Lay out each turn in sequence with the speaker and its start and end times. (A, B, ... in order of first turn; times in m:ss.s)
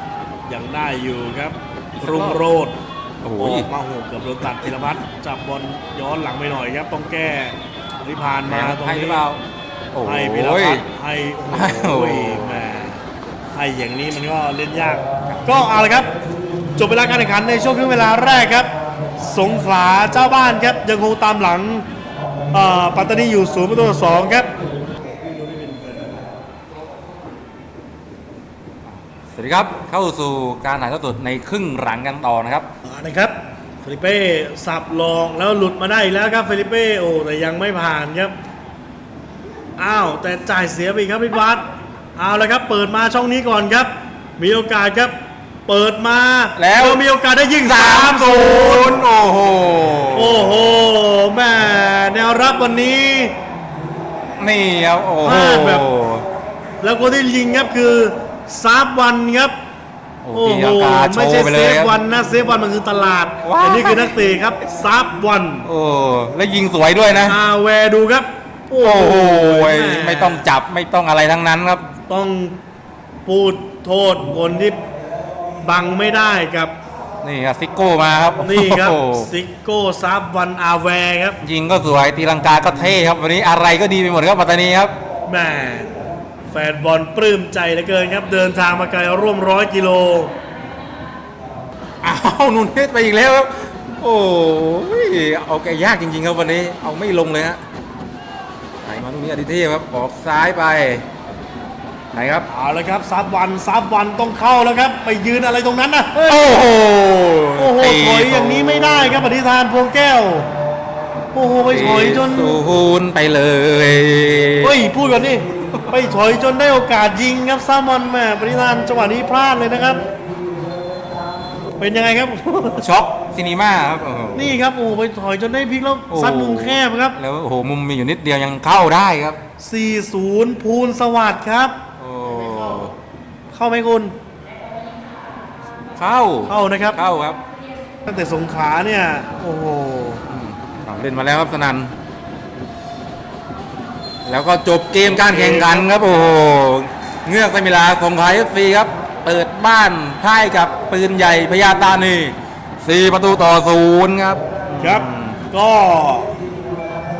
0:00.5-0:02.8 A
0:02.0-0:02.4 B
0:03.2-0:03.7 B
0:03.4-0:09.2 A
0:08.4-0:09.4 B
0:09.9-0:10.8 B
0:10.0-0:13.0 A
0:11.5-0:12.7 B
0:13.6-0:16.1 A
0:15.3-0:15.7 B
0:16.8-0:21.8 A
0:22.5-0:24.5 A
0:25.3-0:26.1 A
0:28.9-0:32.7 B
0:32.8-0:38.3 A
0:39.8-0:41.6 A
0:42.2-0:45.1 A
0:45.7-0:48.9 A
0:46.6-0:47.0 B
0:47.6-0:50.6 B
0:50.1-0:53.3 A
0:54.4-0:56.2 B
0:55.2-0:55.8 A
0:56.8-0:59.5 A
1:00.2-1:01.9 B
1:00.3-1:05.7 A
1:03.4-1:04.2 B
1:05.6-1:07.4 B
1:07.2-1:10.4 A
1:08.8-1:11.9 B
1:12.1-1:12.6 A
1:13.2-1:14.8 A
1:15.6-1:16.7 A
1:17.2-1:19.3 B
1:18.4-1:21.4 A
1:21.4-1:25.0 B
1:25.3-1:25.9 A
1:26.5-1:30.3 A
1:32.0-1:37.6 B
1:38.8-1:41.0 B
1:42.1-1:42.5 B
1:42.5-1:46.6 A
1:46.3-1:49.2 B
1:47.6-1:50.5 A
1:51.3-1:52.6 A
1:51.7-1:54.8 B
1:54.6-2:00.0 A
1:55.6-1:56.0 B
2:01.8-2:02.9 A
2:02.8-2:04.5 B
2:04.3-2:07.2 A
2:06.1-2:09.4 B
2:09.6-2:11.7 A
2:12.0-2:12.9 B
2:13.5-2:14.1 A
2:16.0-2:17.4 B
2:16.5-2:17.0 A
2:18.0-2:20.2 A
2:20.3-2:21.9 B
2:24.2-2:35.4 B
2:25.0-2:25.9 A
2:34.8-2:36.3 A